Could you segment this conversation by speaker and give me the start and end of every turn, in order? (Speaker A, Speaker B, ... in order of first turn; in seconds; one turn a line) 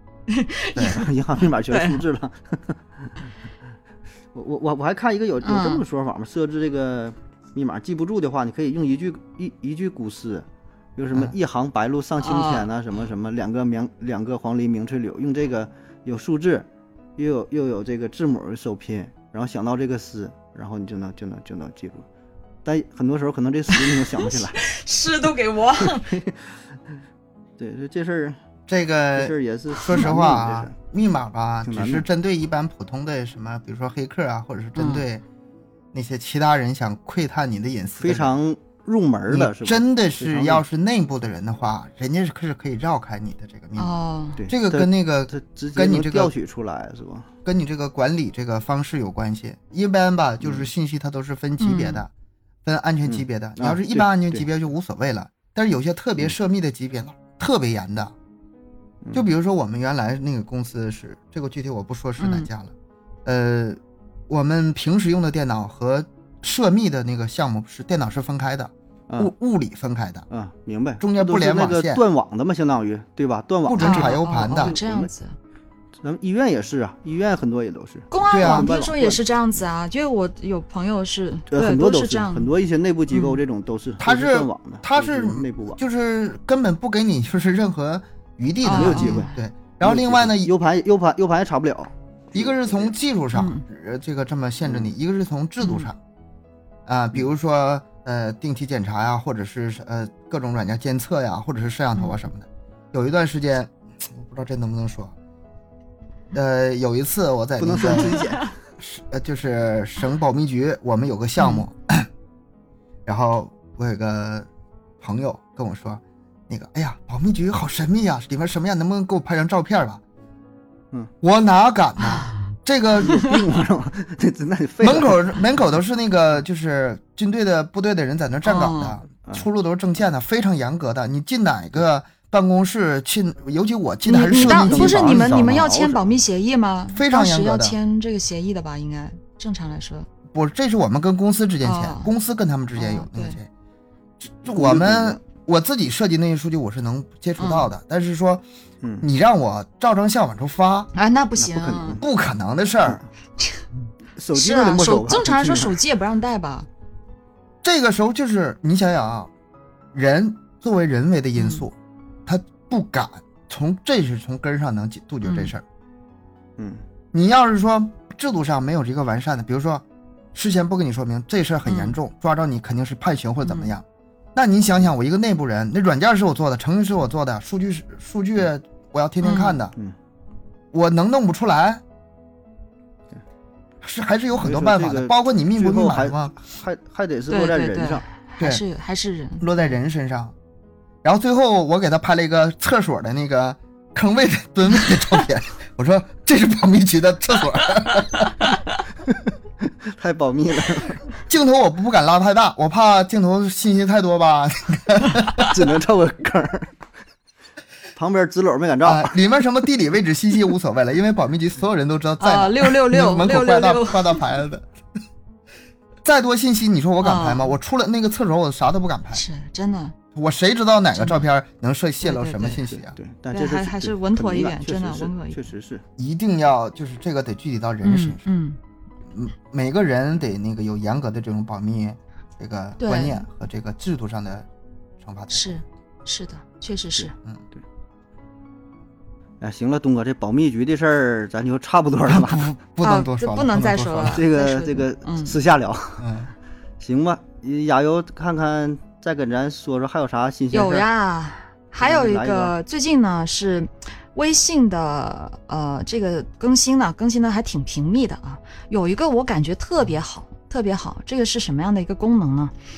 Speaker A: 0.3-1.1
Speaker B: 0.9-3.1
Speaker A: 1.7-2.0
Speaker B: 4.3-16.6
Speaker A: 5.4-5.8
Speaker A: 12.2-12.7
Speaker B: 17.2-22.1
Speaker B: 22.6-24.6
Speaker A: 23.7-26.1
Speaker B: 25.8-26.6
Speaker B: 27.6-28.4
Speaker C: 28.7-35.2
Speaker B: 29.1-30.7
Speaker B: 31.6-32.0
Speaker A: 34.8-35.0
Speaker C: 35.9-38.3
Speaker B: 38.0-40.6
Speaker C: 39.3-43.9
Speaker A: 43.8-44.4
Speaker B: 44.4-47.3
Speaker C: 44.5-46.3
Speaker C: 47.4-52.1
Speaker B: 50.4-50.7
Speaker A: 51.6-52.0
Speaker C: 52.6-58.1
Speaker B: 53.0-54.5
Speaker B: 59.0-59.3
Speaker C: 59.1-62.7
Speaker A: 62.2-62.5
Speaker C: 63.2-70.2
Speaker B: 70.3-75.1
Speaker C: 71.0-72.0
Speaker C: 73.7-74.8
Speaker A: 73.8-75.3
Speaker B: 76.0-79.2
Speaker A: 78.1-82.5
Speaker C: 78.3-78.7
Speaker B: 81.5-85.8
Speaker A: 83.1-83.4
Speaker C: 84.0-90.5
Speaker A: 88.6-89.4
Speaker B: 88.7-92.9
Speaker C: 92.3-96.0
Speaker A: 93.3-93.6
Speaker B: 94.6-94.9
Speaker A: 95.6-95.9
Speaker C: 96.8-105.1
Speaker C: 106.3-108.3
Speaker B: 107.6-108.5
Speaker A: 108.0-108.4
Speaker C: 108.8-112.1
Speaker A: 111.4-111.6
Speaker C: 113.0-114.5
Speaker C: 115.0-120.0
Speaker C: 121.2-123.2
Speaker A: 122.0-122.4
Speaker B: 123.0-125.3
Speaker C: 124.8-135.7
Speaker A: 128.4-129.0
Speaker A: 134.1-140.1
Speaker B: 134.3-136.2
Speaker C: 136.9-137.8
Speaker C: 140.3-143.5
Speaker A: 141.6-142.1
Speaker A: 142.8-143.4
Speaker C: 144.2-148.4
Speaker B: 144.5-145.2
Speaker A: 147.4-147.7
Speaker C: 149.0-150.9
Speaker A: 150.9-152.0
Speaker B: 151.4-152.0
Speaker C: 152.0-153.0
Speaker B: 154.2-155.8
Speaker A: 154.3-156.7
Speaker C: 157.6-159.3
Speaker C: 159.9-161.7
Speaker A: 161.3-161.6
Speaker C: 162.2-165.6
Speaker A: 165.2-165.5
Speaker B: 166.6-166.8
Speaker C: 167.1-173.8
Speaker A: 171.6-171.9
Speaker A: 173.4-173.7
Speaker C: 174.3-179.7
Speaker A: 179.2-179.6
Speaker C: 180.7-181.8
Speaker C: 183.8-186.3
Speaker B: 184.4-188.0
Speaker A: 187.3-189.4
Speaker C: 189.4-190.3
Speaker C: 191.0-198.3
Speaker A: 198.4-198.8
Speaker B: 199.6-201.0
Speaker C: 201.3-205.6
Speaker B: 205.4-206.8
Speaker B: 207.9-209.2
Speaker C: 208.8-214.7
Speaker A: 212.2-214.2
Speaker C: 216.0-219.2
Speaker A: 217.0-217.5
Speaker A: 219.1-219.9
Speaker C: 220.1-222.9
Speaker A: 221.0-221.2
Speaker A: 222.0-222.6
Speaker B: 222.7-225.8
Speaker A: 223.3-225.5
Speaker C: 226.0-228.2
Speaker A: 227.8-228.6
Speaker C: 229.1-234.5
Speaker A: 232.8-233.2
Speaker C: 235.0-235.6
Speaker A: 235.3-237.1
Speaker B: 237.0-237.6
Speaker B: 239.4-242.5
Speaker C: 242.1-244.2
Speaker A: 242.8-245.3
Speaker B: 244.1-246.1
Speaker C: 246.0-246.3
Speaker B: 246.8-250.8
Speaker A: 250.5-262.5
Speaker B: 251.8-252.5